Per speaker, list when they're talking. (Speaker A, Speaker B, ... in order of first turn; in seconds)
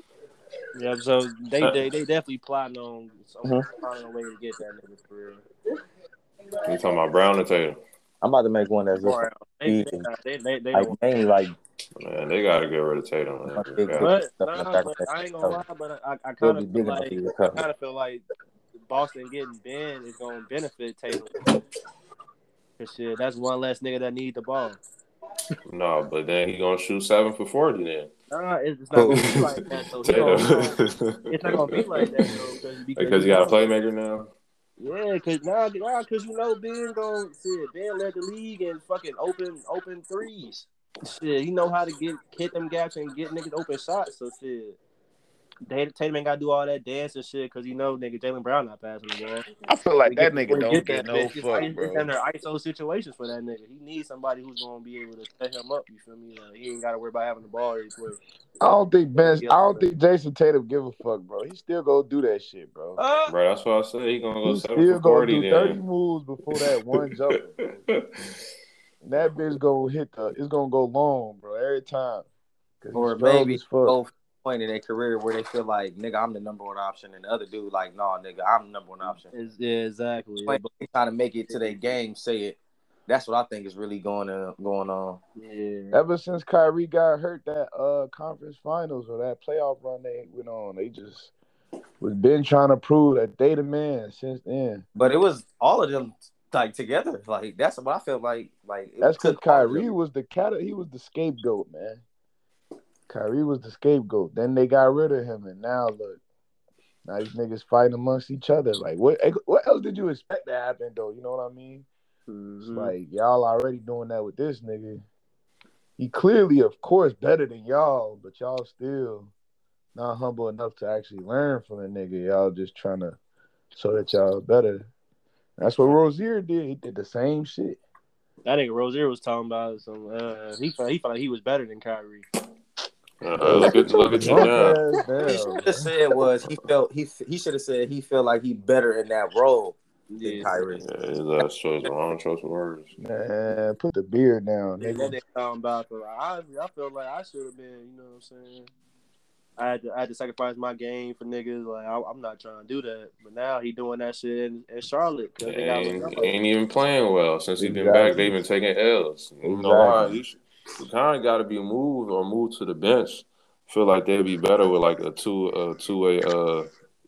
Speaker A: 0.7-5.4, 9.0-10.9, 14.0-18.2, 18.9-21.4, 22.8-24.8, 28.3-33.6, 34.8-44.8, 45.7-49.5, 50.0-58.2, 59.1-59.8, 79.2-80.6, 81.5-81.8, 85.4-86.0, 112.3-112.9, 128.4-132.2, 135.2-135.5, 140.1-140.5, 144.8-148.7, 149.6-156.3
Speaker B: 6.6-7.8, 12.0-14.1, 25.7-28.1, 29.4-32.4, 33.0-34.3, 63.3-65.8, 133.2-134.8, 140.8-142.9, 155.4-166.7
Speaker C: 8.2-10.1, 10.7-11.6, 13.5-15.6, 16.4-17.6, 28.9-30.6, 63.0-63.3, 72.9-79.3, 80.5-85.2, 94.9-99.8, 135.2-140.8
Speaker D: 49.7-52.1, 58.6-63.0, 64.4-67.7, 69.0-72.3, 72.8-74.0, 85.9-91.3, 92.0-94.8, 99.0-102.0, 103.1-106.2, 107.0-111.9, 112.7-115.0, 116.0-119.3, 119.9-123.2, 123.7-124.9, 125.6-127.8, 133.4-135.7, 143.0-145.1, 157.6-158.4, 159.4-160.2